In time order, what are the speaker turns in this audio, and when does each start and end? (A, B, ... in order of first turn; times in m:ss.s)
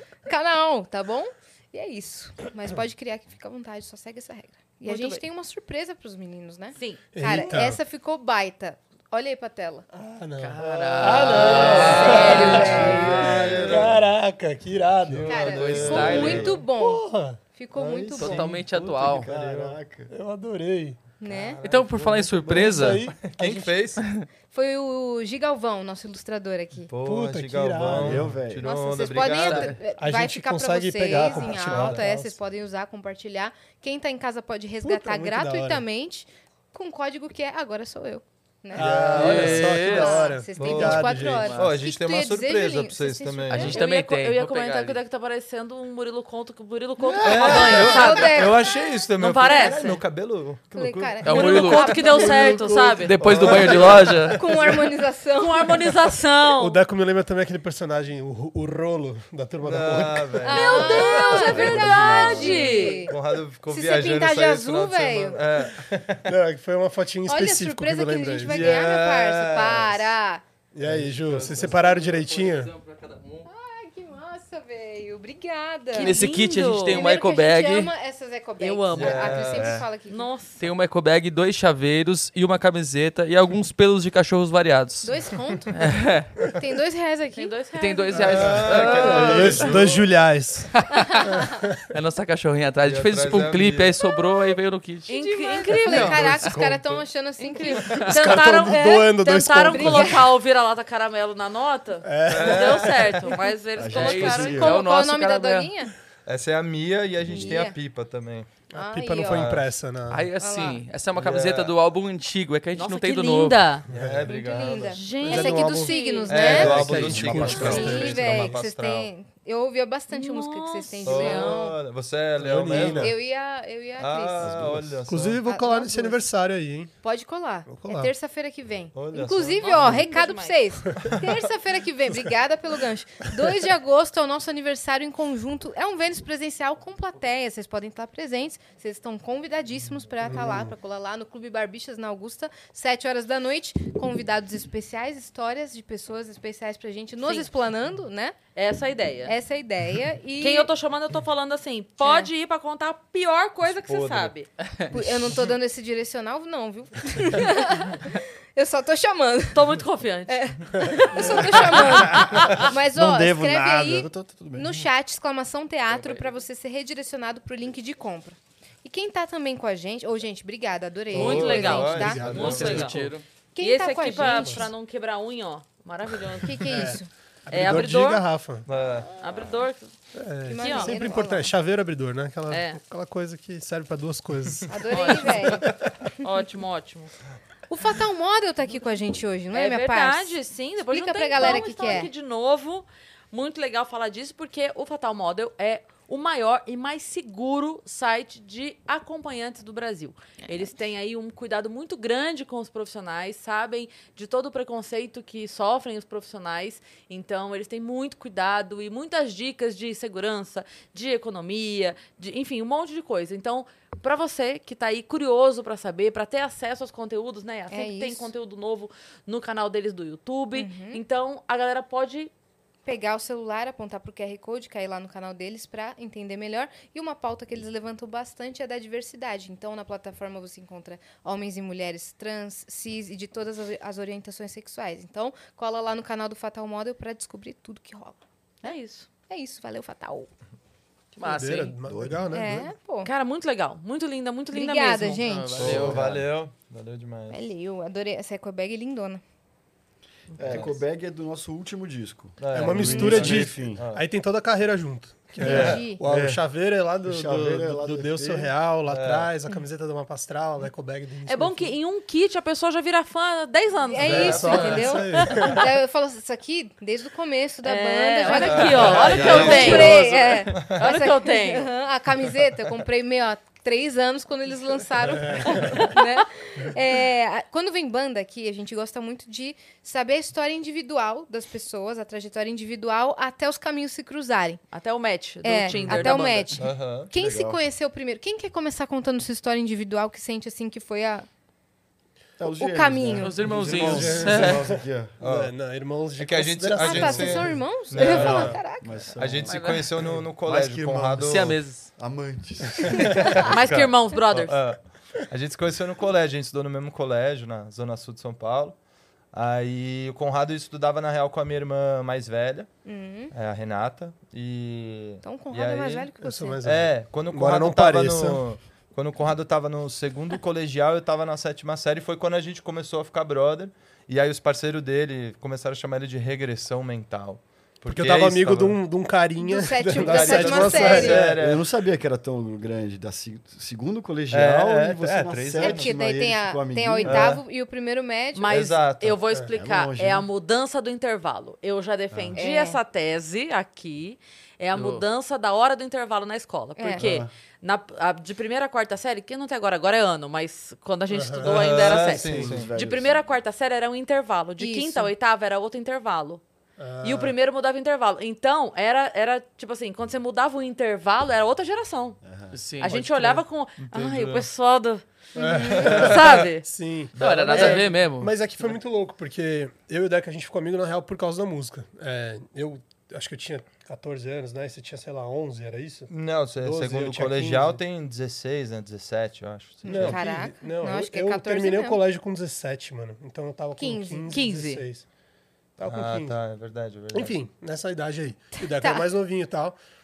0:00.3-0:09.8 A
0:04.8-0:05.2 B
0:06.8-0:07.0 B
0:07.1-0:07.8 C
0:09.9-0:17.4 C
0:10.4-0:13.0 D
0:11.1-0:14.1 E
0:11.3-0:13.3 A
0:11.8-0:13.1 B
0:13.4-0:13.7 F
0:15.0-0:16.6 E
0:15.2-0:18.4 A
0:15.3-0:16.5 D
0:16.0-0:16.3 F
0:17.7-0:19.7 E
0:18.2-0:19.3 D
0:18.8-0:20.1 F
0:19.4-0:21.0 C
0:21.2-0:21.6 A
0:21.2-0:24.0 E
0:21.6-0:23.1 D
0:22.6-0:23.7 C
0:24.0-0:24.2 D
0:24.5-0:26.9 A
0:26.9-0:29.8 E
0:27.0-0:28.4 C
0:27.9-0:28.6 F
0:28.6-0:43.8 A
0:29.4-0:29.7 D
0:30.0-0:32.4 C
0:31.1-0:32.0 E
0:34.8-0:35.8 C
0:38.7-0:41.5 C
0:38.8-0:39.8 E
0:39.1-0:40.4 D
0:40.6-0:43.8 E
0:41.4-0:41.7 D
0:43.5-0:45.0 D
0:43.5-0:48.5 B
0:47.0-0:48.7 A
0:47.2-0:51.2 E
0:49.2-0:50.0 B
0:50.7-0:52.9 A
0:51.2-0:54.4 D
0:51.3-0:53.2 B
0:53.2-0:54.4 E
0:53.4-0:54.1 C
0:54.3-0:55.8 A
0:55.4-0:56.8 B
0:56.6-1:00.9 C
0:59.6-1:06.3 E
1:00.4-1:03.1 A
1:00.5-1:03.1 B
1:03.7-1:05.4 A
1:06.2-1:08.9 C
1:07.2-1:10.4 A
1:08.4-1:10.1 E
1:10.7-1:12.7 C
1:10.8-1:11.4 F
1:11.3-1:13.4 D
1:11.3-1:11.6 E
1:13.4-1:20.3 A
1:15.9-1:17.0 B
1:15.9-1:17.9 D
1:18.6-1:20.6 B
1:18.9-1:19.8 E
1:19.6-1:19.8 F
1:20.6-1:25.1 D
1:25.0-1:25.9 A
1:25.7-1:26.3 D
1:26.4-1:27.5 A
1:27.3-1:28.3 B
1:27.8-1:29.7 D
1:28.2-1:30.0 E
1:28.3-1:30.7 C
1:30.7-1:31.3 D
1:31.3-1:31.8 C
1:31.9-1:35.1 D
1:32.8-1:34.0 E
1:35.1-1:36.4 B
1:35.1-1:38.0 A
1:35.8-1:37.0 E
1:37.4-1:44.8 B
1:38.0-1:40.2 C
1:39.7-1:40.2 A
1:42.0-1:43.2 C
1:42.3-1:43.3 E
1:43.8-1:44.8 F
1:43.9-1:45.7 D
1:44.4-1:45.9 A
1:46.2-1:48.5 E
1:47.2-1:47.8 A
1:48.7-1:50.2 C
1:48.7-1:49.5 A
1:49.2-1:49.7 E
1:50.1-1:53.7 D
1:50.4-1:50.8 A
1:51.1-1:51.7 E
1:52.7-1:53.8 B
1:53.9-1:54.3 C
1:53.9-1:55.3 E
1:54.2-1:56.8 A
1:54.7-1:56.4 B
1:55.1-1:58.6 C
1:56.3-1:59.1 E
1:56.4-1:57.7 D
1:56.4-1:57.9 F
1:57.4-2:01.8 A
2:00.1-2:01.6 B
2:01.0-2:03.2 E
2:02.4-2:03.1 C
2:02.7-2:04.6 A
2:04.0-2:05.4 E
2:04.4-2:05.0 F
2:05.0-2:06.9 C
2:05.4-2:06.2 A
2:07.0-2:28.4 A
2:07.7-2:08.1 C
2:08.9-2:10.0 E
2:09.6-2:10.7 B
2:11.0-2:11.4 E
2:20.2-2:20.7 C
2:27.2-2:27.5 B
2:28.5-2:29.3 B
2:29.2-2:30.7 A
2:30.4-2:34.5 B
2:32.0-2:32.3 A
2:33.8-2:34.3 E
2:34.9-2:39.7 A
2:39.5-2:42.3 B
2:40.3-2:52.2 A
2:42.0-2:44.8 F
2:45.9-2:46.3 D
2:51.1-2:53.0 E
2:51.1-2:53.0 B
2:51.4-2:53.1 C
2:52.3-2:53.2 D
2:53.5-2:54.7 A
2:53.6-2:56.8 B
2:54.2-2:54.7 C
2:56.4-2:57.1 A
2:56.6-2:58.7 C
2:57.5-2:58.2 B
2:58.6-2:59.1 E
2:59.2-2:59.9 B
3:00.1-3:04.7 C
3:00.4-3:01.5 A
3:00.6-3:01.0 B
3:02.5-3:02.8 B
3:04.7-3:05.7 A
3:04.9-3:05.7 B
3:05.6-3:05.9 C
3:06.2-3:07.1 B
3:07.7-3:10.4 A
3:09.5-3:42.3 B
3:10.9-3:12.1 A
3:37.7-3:38.3 A
3:40.5-3:41.0 A
3:42.8-3:58.2 A
3:58.6-3:59.1 B
3:59.3-4:00.3 A
4:01.2-4:01.8 D
4:01.2-4:02.7 C
4:01.8-4:02.3 F
4:02.3-4:03.1 A
4:03.0-4:05.2 B
4:04.5-4:05.7 A
4:05.2-4:06.0 D
4:05.6-4:07.4 E
4:05.6-4:06.2 F
4:07.3-4:09.2 A
4:10.3-4:10.8 E
4:10.4-4:13.8 F
4:12.4-4:14.0 E
4:12.5-4:21.7 C
4:15.4-4:16.0 A
4:15.4-4:16.4 F
4:17.0-4:18.5 F
4:18.9-4:19.3 E
4:21.2-4:25.5 B
4:23.9-4:44.6 A
4:24.0-4:24.9 E
4:24.0-4:25.7 C
4:27.6-4:31.7 B
4:28.3-4:30.8 E
4:28.8-4:29.7 C
4:29.0-4:29.9 F
4:35.0-4:35.9 C
4:35.5-4:36.0 B
4:44.7-4:46.5 B
4:45.4-4:51.3 A
4:46.6-4:47.1 E
4:47.1-4:47.6 F
4:52.4-4:55.1 F
4:52.5-4:53.3 A
4:53.1-4:54.7 D
4:53.5-4:58.6 C
4:55.2-4:55.5 E
4:56.2-4:58.6 E
4:56.8-4:59.0 A
4:58.0-5:03.5 F
4:59.2-5:01.6 E
4:59.5-4:59.8 D
5:01.2-5:01.9 D
5:02.9-5:08.8 E
5:03.4-5:04.6 B
5:09.3-5:12.7 E
5:12.8-5:13.3 A
5:13.3-5:16.1 E
5:15.2-5:16.6 A
5:16.2-5:18.4 C
5:16.6-5:28.8 E
5:27.9-5:31.4 C
5:29.4-5:31.2 A
5:29.9-5:31.6 E
5:31.1-5:37.4 F
5:34.3-5:35.9 E
5:35.6-5:38.6 A
5:37.0-5:37.4 E
5:38.3-5:56.4 B
5:38.5-5:39.2 E
5:39.5-5:40.3 F
5:42.1-5:42.4 F
5:42.4-5:42.8 A
5:44.7-5:45.0 D
5:46.8-5:47.1 A
5:47.0-5:47.3 F
5:51.1-5:51.5 C
5:51.4-5:52.7 E
5:51.5-5:53.2 F
5:54.6-5:55.1 A
5:56.8-5:57.3 C
5:57.0-6:02.2 B
6:02.2-6:02.6 F
6:02.5-6:03.3 D
6:02.8-6:06.7 B
6:02.9-6:03.4 C
6:03.8-6:04.5 E
6:05.4-6:17.8 C
6:05.4-6:05.9 A
6:05.7-6:06.4 E
6:07.2-6:08.4 D
6:07.2-6:07.8 E
6:16.1-6:20.2 E
6:19.8-6:22.0 A
6:19.8-6:25.0 C
6:23.8-6:24.4 A
6:24.3-6:24.8 B
6:25.8-6:26.4 C
6:25.8-6:27.4 E
6:27.1-6:29.8 C
6:28.6-6:29.0 A